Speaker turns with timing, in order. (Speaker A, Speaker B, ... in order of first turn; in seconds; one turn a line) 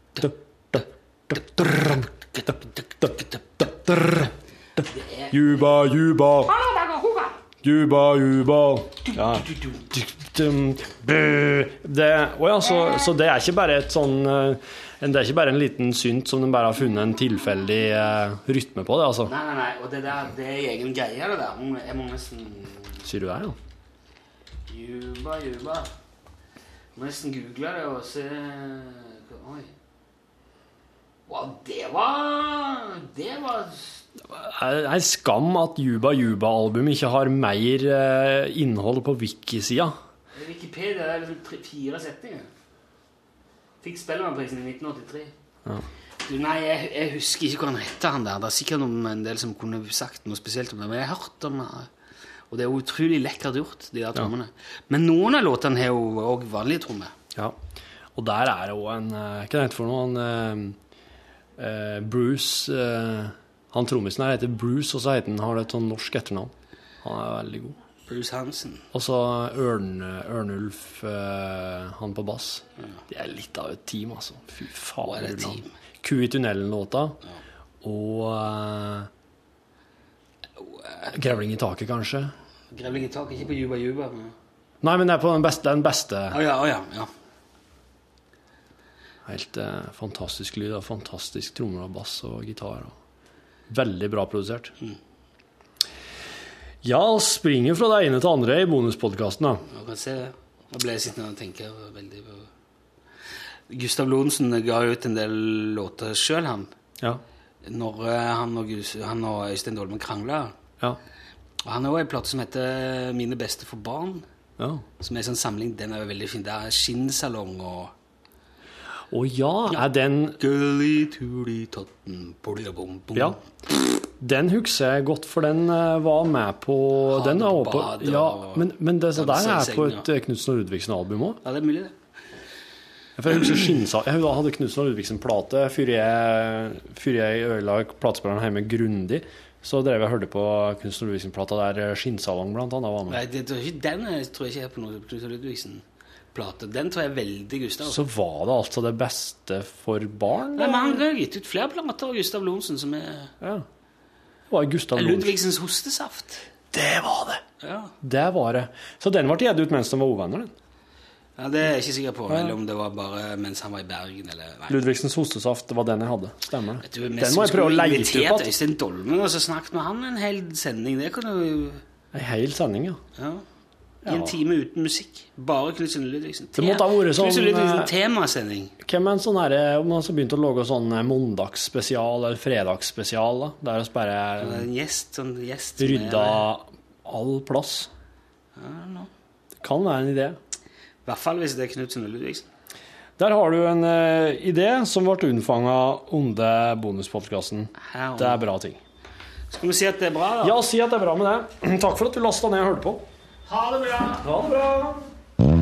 Speaker A: 0.2-6.5
Speaker B: 2.1-3.4
Speaker B: 4.9-5.7
Speaker B: 6.5-7.3
Speaker A: 7.6-19.3
Speaker B: 9.1-9.8
Speaker B: 19.2-23.0
Speaker A: 23.0-23.6
Speaker B: 24.7-25.9
Speaker B: 26.9-29.7
Speaker B: 31.3-34.0
Speaker A: 34.2-40.0
Speaker B: 40.3-42.5
Speaker B: 43.8-45.3
Speaker B: 46.2-51.9
Speaker B: 52.5-57.1
Speaker A: 58.1-60.8
Speaker A: 61.6-66.5
Speaker A: 67.0-67.8
Speaker B: 68.1-68.8
Speaker A: 68.9-77.2
Speaker B: 75.0-75.7
Speaker A: 77.8-79.1
Speaker B: 80.6-81.2
Speaker A: 81.1-82.3
Speaker B: 82.7-84.3
Speaker A: 84.8-86.4
Speaker B: 86.3-87.1
Speaker A: 89.2-92.9
Speaker A: 93.7-94.7
Speaker A: 96.8-99.6
Speaker B: 99.7-102.5
Speaker B: 103.7-106.7
Speaker B: 107.6-110.5
Speaker B: 111.6-114.2
Speaker A: 114.6-114.8
Speaker B: 115.0-117.9
Speaker A: 119.1-120.4
Speaker B: 120.4-123.4
Speaker A: 123.1-131.4
Speaker B: 127.1-130.1
Speaker B: 131.4-131.9
Speaker A: 133.2-143.2
Speaker B: 143.1-148.0
Speaker A: 147.8-151.0
Speaker B: 150.5-153.3
Speaker A: 153.4-153.7
Speaker A: 154.5-155.3
Speaker B: 154.9-156.4
Speaker A: 156.7-157.4
Speaker B: 157.6-157.9
Speaker A: 158.0-160.5
Speaker B: 161.4-164.8
Speaker A: 162.3-162.6
Speaker A: 164.7-168.5
Speaker B: 166.8-171.8
Speaker A: 172.1-173.0
Speaker B: 173.2-173.4
Speaker A: 174.0-174.3
Speaker B: 174.0-178.7
Speaker A: 176.6-177.9
Speaker A: 178.8-184.7
Speaker B: 184.4-186.4
Speaker A: 185.8-187.9
Speaker B: 188.6-189.1
Speaker A: 189.6-190.4
Speaker B: 191.1-192.5
Speaker A: 193.2-198.8
Speaker B: 197.8-198.4
Speaker B: 199.5-200.6
Speaker A: 200.4-203.0
Speaker B: 203.5-204.2
Speaker A: 204.2-205.0